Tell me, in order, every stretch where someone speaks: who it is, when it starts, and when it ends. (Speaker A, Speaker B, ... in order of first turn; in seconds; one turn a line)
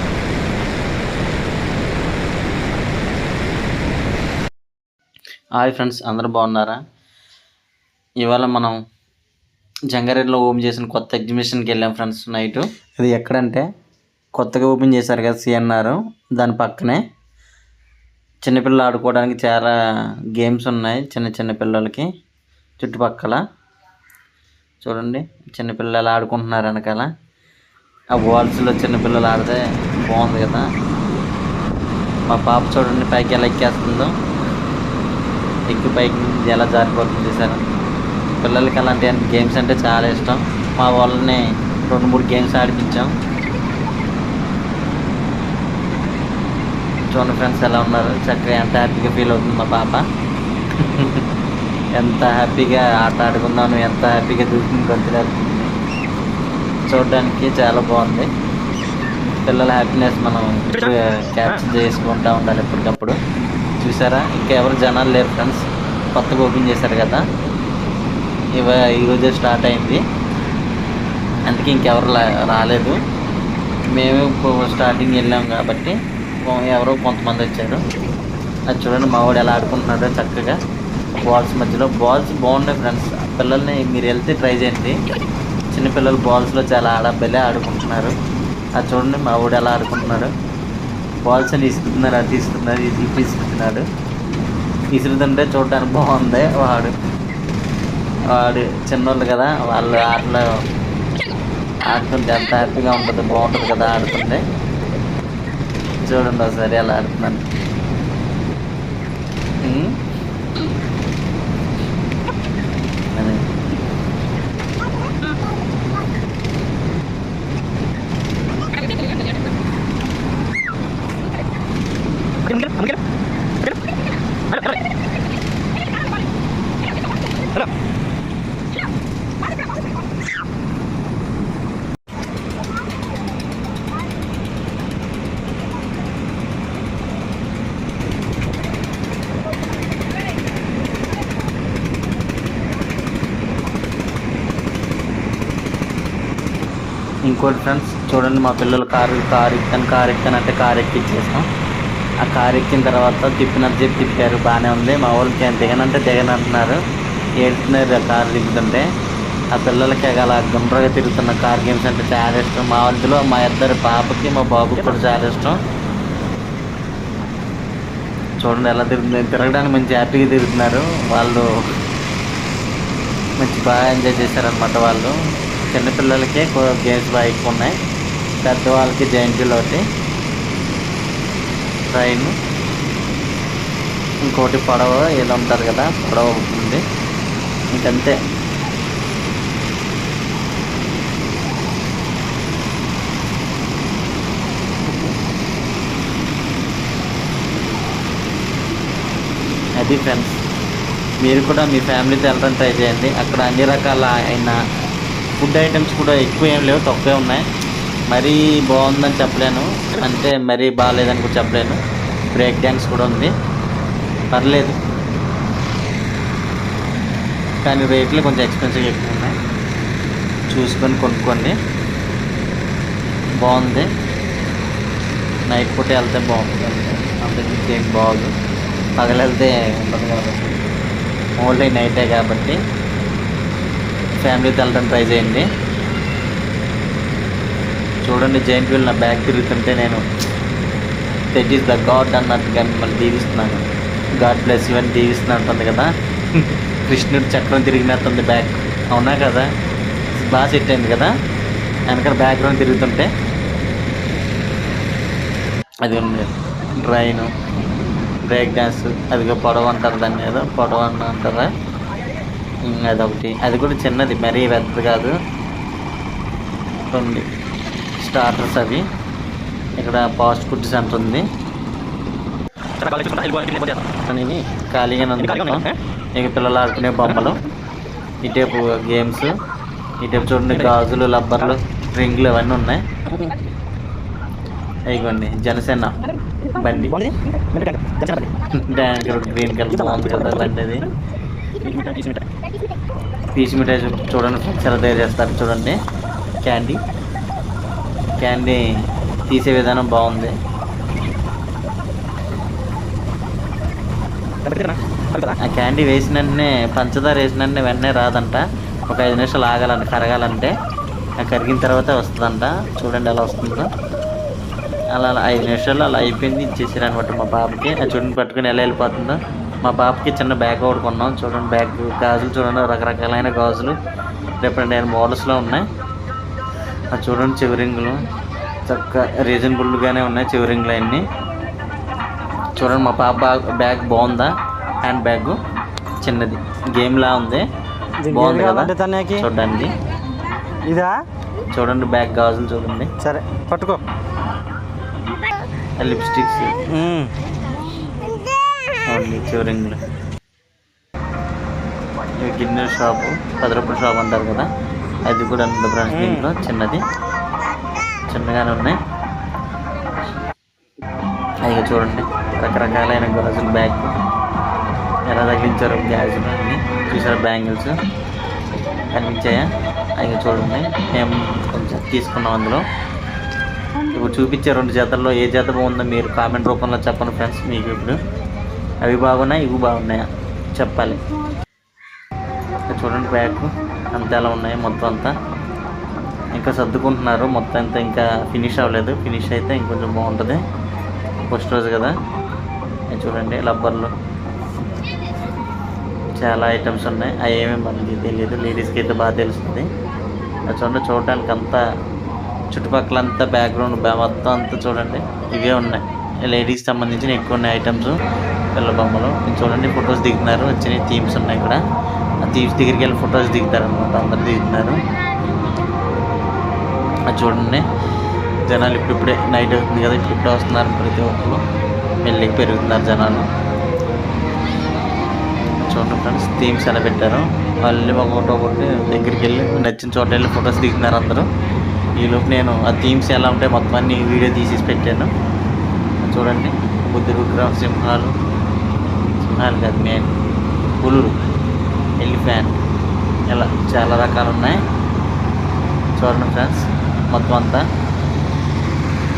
Speaker A: 5.5-6.8
Speaker A: 8.2-8.8
Speaker A: 9.9-13.7
Speaker A: 14.3-17.0
Speaker A: 18.4-19.7
Speaker A: 20.3-22.1
Speaker A: 22.8-23.4
Speaker A: 24.8-27.1
Speaker A: 28.1-30.7
Speaker A: 32.3-34.1
Speaker A: 35.7-37.6
Speaker A: 38.4-43.1
Speaker A: 47.1-50.0
Speaker A: 50.8-51.2
Speaker A: 51.9-55.7
Speaker A: 56.9-58.3
Speaker A: 59.4-63.2
Speaker A: 63.8-65.6
Speaker A: 66.1-67.2
Speaker A: 68.6-70.0
Speaker A: 71.5-73.0
Speaker A: 73.9-77.8
Speaker A: 78.7-80.6
Speaker A: 81.2-85.0
Speaker A: 85.7-88.1
Speaker A: 88.8-90.3
Speaker A: 91.2-93.8
Speaker A: 94.9-96.9
Speaker A: 98.3-100.5
Speaker A: 101.9-104.4
Speaker A: 106.0-107.5
Speaker A: 109.6-110.0
Speaker A: 113.1-113.5
Speaker B: 122.5-122.9
Speaker A: 147.2-151.4
Speaker A: 152.2-156.8
Speaker A: 157.4-158.9
Speaker A: 159.5-165.6
Speaker A: 168.4-171.4
Speaker A: 173.4-177.8
Speaker A: 178.4-179.8
Speaker A: 181.9-182.3
Speaker A: 184.3-186.8
Speaker A: 187.7-188.1
Speaker A: 199.8-200.4
Speaker A: 201.2-204.6
Speaker A: 205.4-207.4
Speaker A: 208.1-211.8
Speaker A: 212.3-213.3
Speaker A: 214.3-214.8
Speaker A: 217.6-219.3
Speaker A: 220.5-221.6
Speaker A: 223.4-223.9
Speaker A: 225.5-228.3
Speaker A: 228.9-230.4
Speaker A: 231.4-232.6
Speaker A: 234.2-235.5
Speaker A: 238.0-240.0
Speaker A: 241.3-243.6
Speaker A: 244.2-249.5
Speaker A: 250.1-251.1
Speaker A: 251.9-253.1
Speaker A: 255.8-257.3
Speaker A: 258.3-261.5
Speaker A: 262.6-265.2
Speaker A: 266.9-267.2
Speaker A: 268.0-268.8
Speaker A: 269.8-271.2
Speaker B: 272.8-274.4
Speaker A: 274.7-277.4
Speaker A: 278.2-279.3
Speaker A: 280.0-282.8
Speaker A: 284.9-286.0
Speaker A: 286.5-287.1
Speaker B: 287.4-288.3
Speaker A: 288.5-290.9
Speaker B: 291.6-292.2
Speaker A: 293.3-295.8
Speaker A: 296.4-296.8
Speaker A: 298.2-298.6
Speaker A: 299.3-300.4
Speaker B: 304.5-305.3
Speaker A: 305.4-310.5
Speaker A: 311.2-313.7
Speaker A: 314.9-323.8
Speaker A: 324.4-325.6
Speaker A: 326.9-328.0
Speaker A: 328.6-331.0
Speaker A: 332.6-334.3
Speaker A: 334.8-335.4
Speaker A: 336.0-337.4
Speaker B: 338.0-339.2
Speaker A: 338.1-339.7
Speaker B: 340.6-341.0
Speaker A: 341.5-342.9
Speaker B: 343.0-343.8
Speaker A: 345.8-346.6
Speaker B: 346.7-347.1
Speaker A: 348.9-349.8
Speaker A: 352.2-354.5
Speaker A: 355.0-356.8
Speaker A: 358.1-358.8
Speaker A: 361.4-363.9
Speaker A: 365.1-367.7
Speaker A: 368.9-372.6
Speaker A: 373.9-378.0
Speaker A: 378.8-381.0
Speaker A: 382.7-385.1
Speaker A: 386.3-390.4
Speaker A: 391.3-391.9
Speaker A: 392.9-393.9
Speaker A: 396.1-399.7
Speaker A: 400.5-401.6
Speaker A: 402.5-408.0
Speaker A: 408.5-411.6
Speaker A: 412.2-414.8
Speaker A: 417.1-417.6
Speaker A: 418.4-421.4
Speaker A: 422.0-423.3
Speaker A: 425.7-431.3
Speaker A: 432.0-435.1
Speaker A: 436.0-438.1
Speaker A: 439.1-440.1
Speaker A: 440.8-441.1
Speaker A: 442.0-442.6
Speaker A: 443.3-444.6
Speaker A: 445.9-447.6